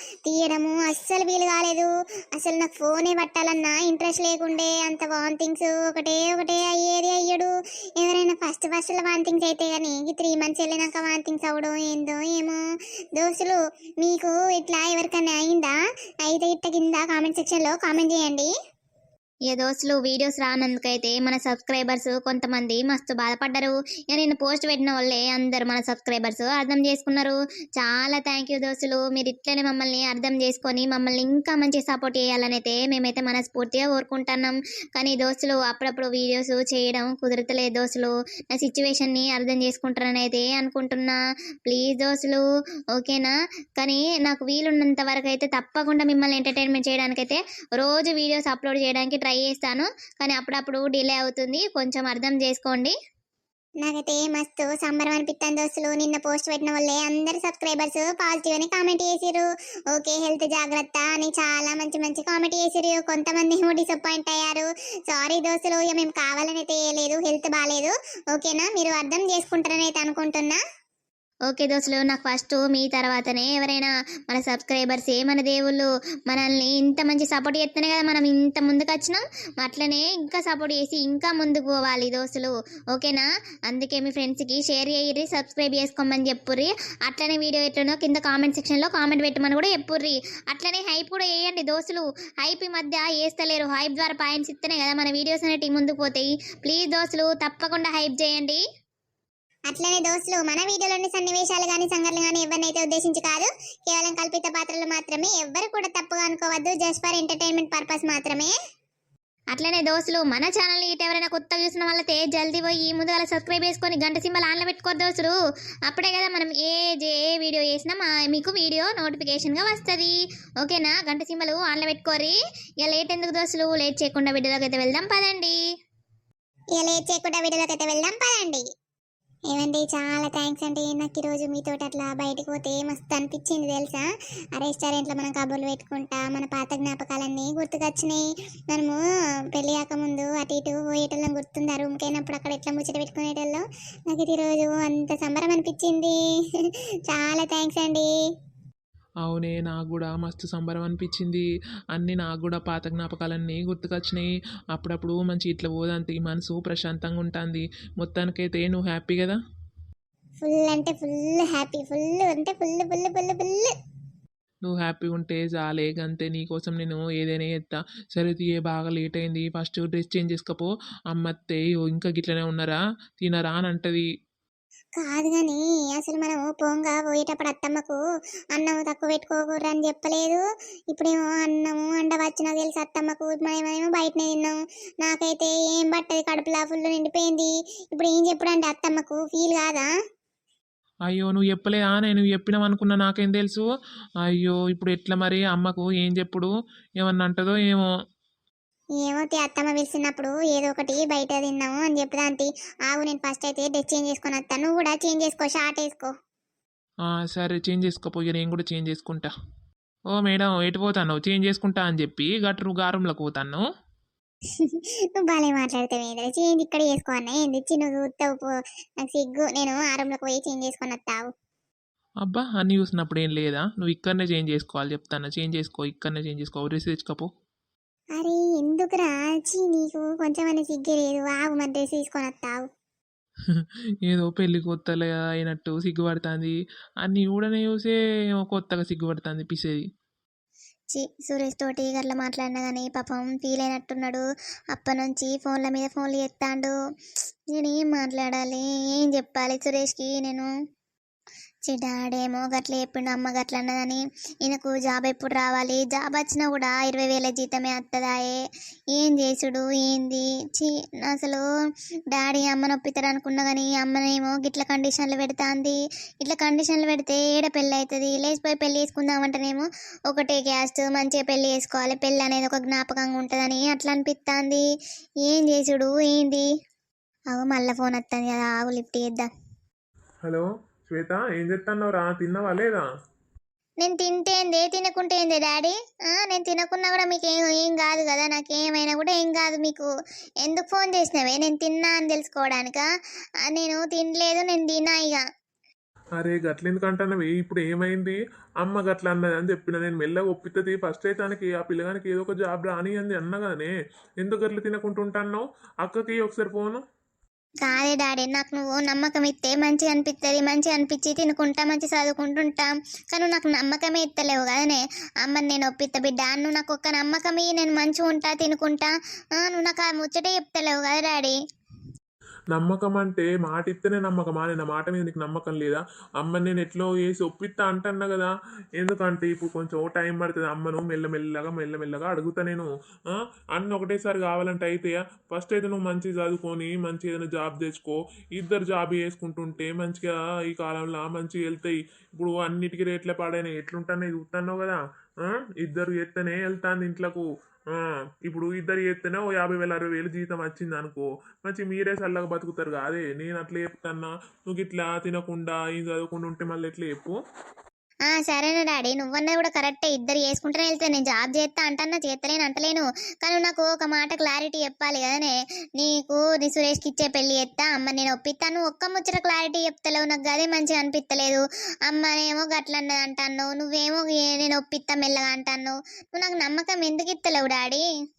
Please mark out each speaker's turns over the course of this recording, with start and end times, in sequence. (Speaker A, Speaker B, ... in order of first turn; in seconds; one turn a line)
Speaker A: 0.2-12.6
Speaker A: 13.2-18.5
Speaker B: 19.5-42.4
Speaker B: 43.0-52.9
Speaker A: 53.8-70.6
Speaker B: 71.5-98.6
Speaker A: 99.7-108.5
Speaker B: 109.5-115.3
Speaker B: 115.9-125.6
Speaker A: 126.8-128.6
Speaker A: 129.5-139.0
Speaker A: 139.5-148.1
Speaker C: 149.2-159.4
Speaker A: 160.4-163.7
Speaker C: 164.7-174.1
Speaker A: 175.0-178.0
Speaker A: 178.5-180.4
Speaker A: 180.9-189.9
Speaker C: 191.1-193.6
Speaker C: 194.3-197.9
Speaker A: 199.0-206.1
Speaker C: 207.1-209.3
Speaker C: 210.2-213.6
Speaker A: 214.6-221.3
Speaker C: 222.2-227.3
Speaker A: 228.2-232.7
Speaker C: 233.5-239.8
Speaker B: 240.9-246.7
Speaker B: 247.5-250.5
Speaker B: 251.7-258.4
Speaker B: 258.9-261.4
Speaker B: 262.1-274.6
Speaker B: 275.2-276.4
Speaker B: 277.3-279.3
Speaker D: 280.2-282.8
Speaker B: 283.8-289.9
Speaker B: 290.4-292.8
Speaker B: 293.5-295.2
Speaker D: 296.2-306.8
Speaker B: 307.6-321.3
Speaker D: 322.5-332.7
Speaker D: 333.6-357.1
Speaker B: 358.1-377.8